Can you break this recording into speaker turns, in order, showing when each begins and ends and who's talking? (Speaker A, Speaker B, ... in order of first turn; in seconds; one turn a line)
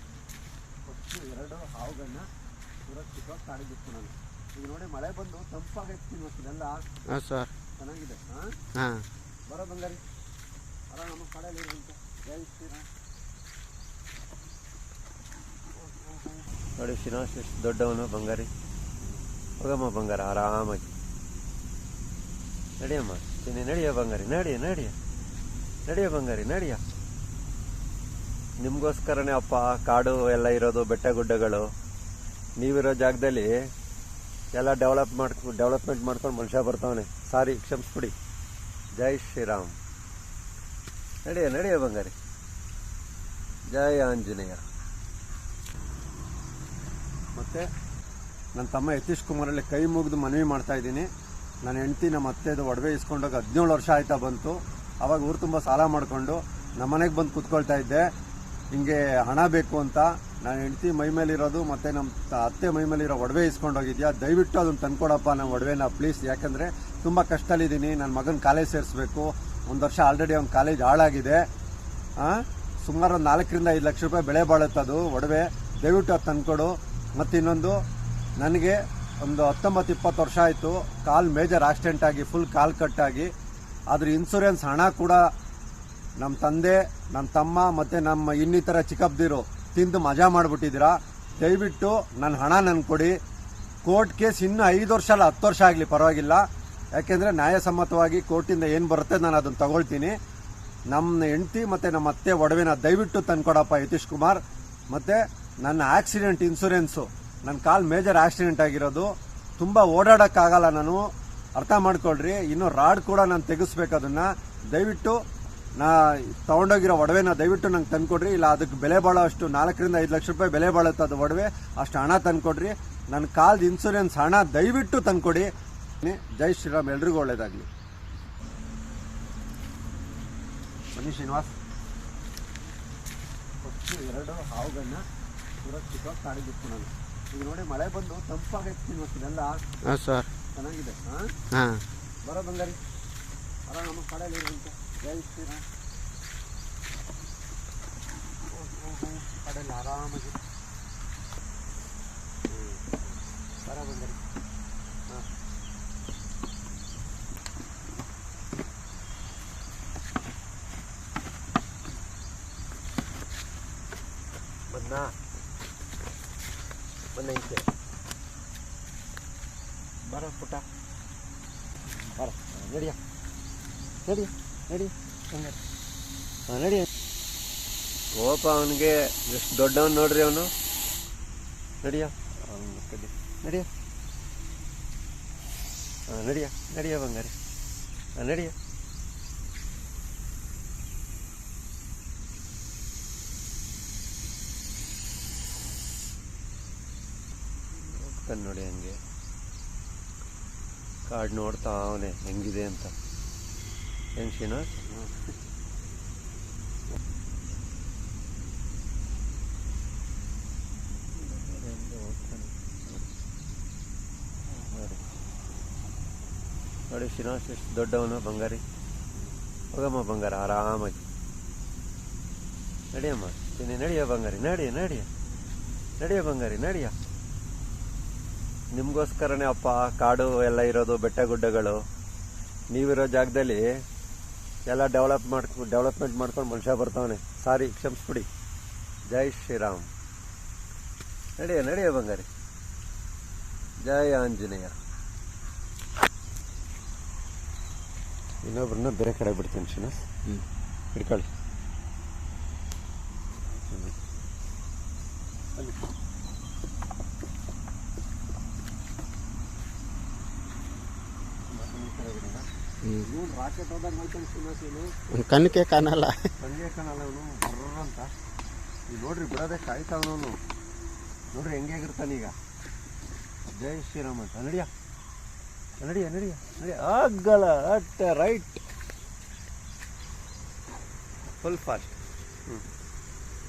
Speaker A: 0.9-2.3
Speaker A: 2.9-6.8
Speaker B: 7.1-7.5
Speaker A: 7.8-8.6
Speaker B: 8.8-9.1
Speaker A: 9.5-10.0
Speaker A: 10.9-12.9
Speaker A: 15.9-18.5
Speaker A: 19.6-20.9
Speaker A: 22.8-24.9
Speaker A: 25.9-26.8
Speaker A: 28.6-31.7
Speaker A: 32.6-33.5
Speaker A: 34.5-38.1
Speaker A: 39.0-39.8
Speaker A: 41.3-42.1
Speaker A: 43.7-44.6
Speaker A: 47.4-47.7
Speaker A: 48.6-51.1
Speaker A: 51.6-58.1
Speaker A: 58.7-71.4
Speaker A: 72.2-77.8
Speaker A: 78.4-83.3
Speaker A: 83.9-85.3
Speaker A: 86.2-93.2
Speaker A: 93.8-96.5
Speaker A: 97.0-100.2
Speaker A: 100.9-115.2
Speaker A: 115.8-125.5
Speaker A: 126.0-127.7
Speaker A: 130.9-131.6
Speaker A: 133.6-135.1
Speaker A: 135.6-139.6
Speaker B: 139.8-140.3
Speaker A: 140.6-141.3
Speaker B: 141.5-141.8
Speaker A: 142.2-142.8
Speaker A: 143.7-145.7
Speaker A: 148.5-150.4
Speaker A: 152.5-153.1
Speaker A: 153.6-154.2
Speaker A: 164.7-165.2
Speaker A: 167.2-167.7
Speaker A: 170.1-170.7
Speaker A: 172.0-173.0
Speaker A: 174.1-175.6
Speaker A: 176.5-176.9
Speaker A: 178.2-180.5
Speaker A: 181.8-183.7
Speaker A: 186.1-187.4
Speaker A: 188.2-188.6
Speaker A: 197.7-199.0
Speaker A: 201.1-202.9
Speaker A: 204.2-205.1
Speaker A: 211.2-213.0
Speaker A: 214.5-215.0
Speaker A: 216.9-218.6
Speaker A: 219.7-221.0
Speaker A: 222.9-225.1
Speaker A: 226.0-226.9
Speaker A: 228.7-231.8
Speaker A: 232.7-233.7
Speaker A: 234.7-238.3
Speaker A: 239.1-239.9
Speaker A: 241.4-242.3
Speaker A: 243.8-244.8
Speaker A: 248.4-250.1
Speaker A: 250.9-251.3
Speaker A: 253.7-253.9
Speaker A: 261.5-262.5
Speaker A: 263.0-264.9
Speaker B: 265.1-266.3
Speaker A: 266.4-268.1
Speaker A: 268.9-270.4
Speaker A: 271.3-272.4
Speaker A: 273.6-274.7
Speaker A: 275.8-278.6
Speaker A: 281.4-282.6